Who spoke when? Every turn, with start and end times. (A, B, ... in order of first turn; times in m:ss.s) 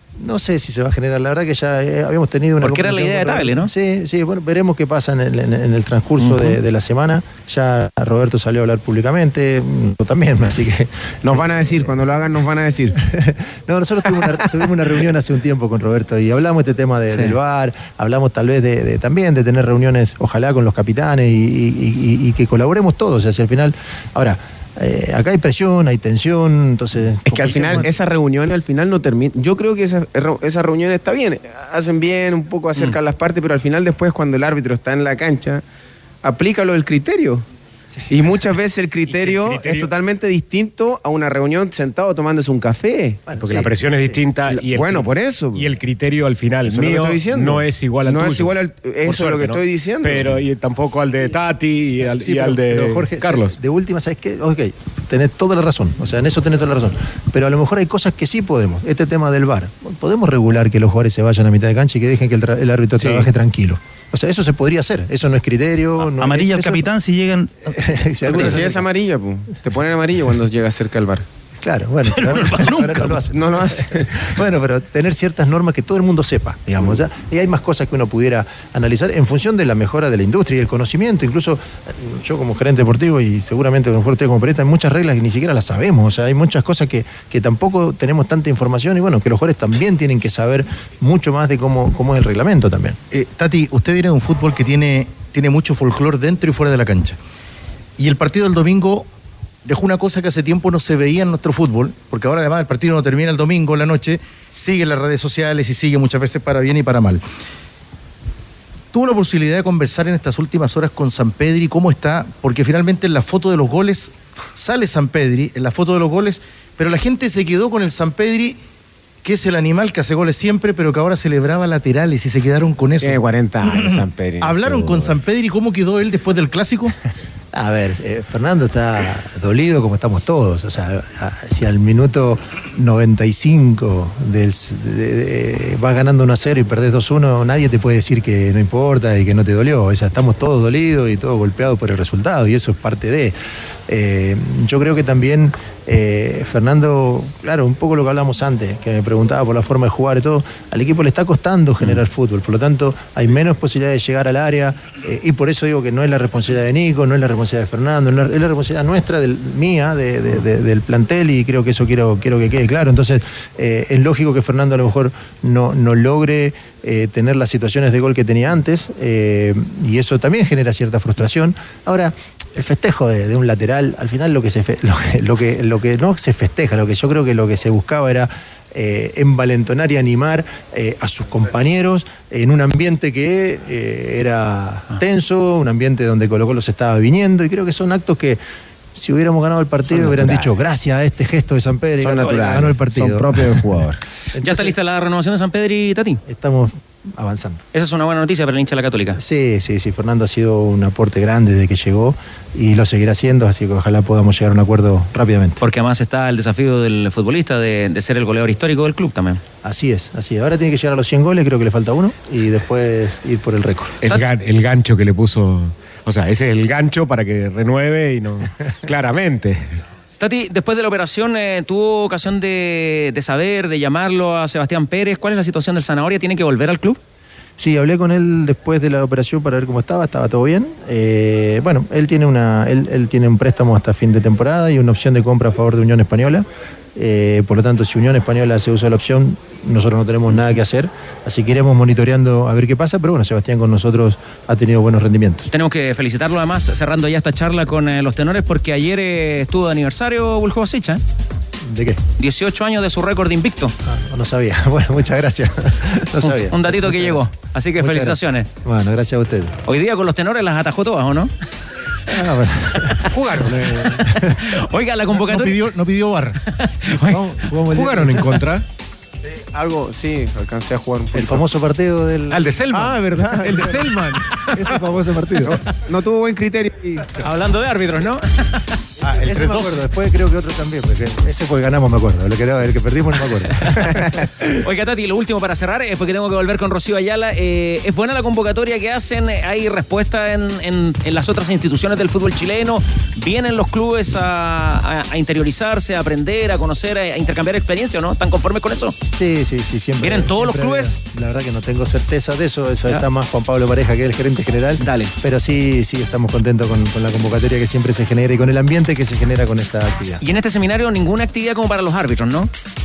0:00.2-0:12.1 A
0:02.6-0:03.7 B
0:11.2-0:13.0 C
0:13.0-0:27.9 A
0:27.3-0:35.6 C
0:36.2-0:37.4 C
0:38.1-0:43.2 C
0:39.1-0:39.9 D
0:43.3-0:44.2 A
0:43.4-0:53.6 D
0:44.5-0:45.7 C
0:46.6-0:50.4 C
0:52.0-1:06.9 A
1:03.0-1:03.3 D
1:06.0-1:07.8 E
1:07.7-1:08.8 A
1:08.3-1:11.2 C
1:08.3-1:08.6 E
1:11.6-1:33.0 A
1:12.1-1:13.2 E
1:13.3-1:14.3 C
1:33.1-1:37.2 F
1:38.0-1:39.1 F
1:39.6-1:47.2 F
1:48.9-1:58.6 F
1:59.2-2:07.0 F
2:03.0-2:05.2 C
2:07.5-2:23.4 A
2:23.9-3:08.4 A
3:08.9-3:13.6 A
3:09.9-3:10.5 C
3:12.0-3:14.0 C
3:14.3-3:14.8 A
3:14.4-3:16.2 B
3:16.3-3:17.6 A
3:17.7-3:19.2 B
3:19.2-3:25.6 A
3:25.6-3:29.4 B
3:29.6-3:34.0 A
3:34.0-3:39.8 D
3:40.2-3:47.0 B
3:47.6-4:05.5 A
4:05.5-4:11.0 B
4:11.6-4:12.0 A
4:12.2-4:13.7 B
4:13.8-4:19.6 A
4:16.5-4:18.5 B
4:19.7-4:21.3 B
4:22.1-4:23.1 A
4:23.1-4:24.0 D
4:24.0-4:24.4 A
4:24.4-4:25.6 B
4:25.2-4:26.4 F
4:26.5-4:27.4 B
4:27.0-4:28.4 A
4:27.8-4:28.2 F
4:27.8-4:28.6 D
4:29.4-4:31.5 C
4:31.1-4:33.8 A
4:32.3-4:34.6 D
4:32.7-4:33.9 C
4:34.5-4:35.6 A
4:35.4-4:37.1 C
4:37.2-4:38.7 B
4:39.0-4:44.1 A
4:39.1-4:39.7 F
4:44.5-4:59.0 B
4:59.1-5:10.2 A
5:00.0-5:01.0 B
5:04.8-5:05.1 B
5:10.2-5:12.5 B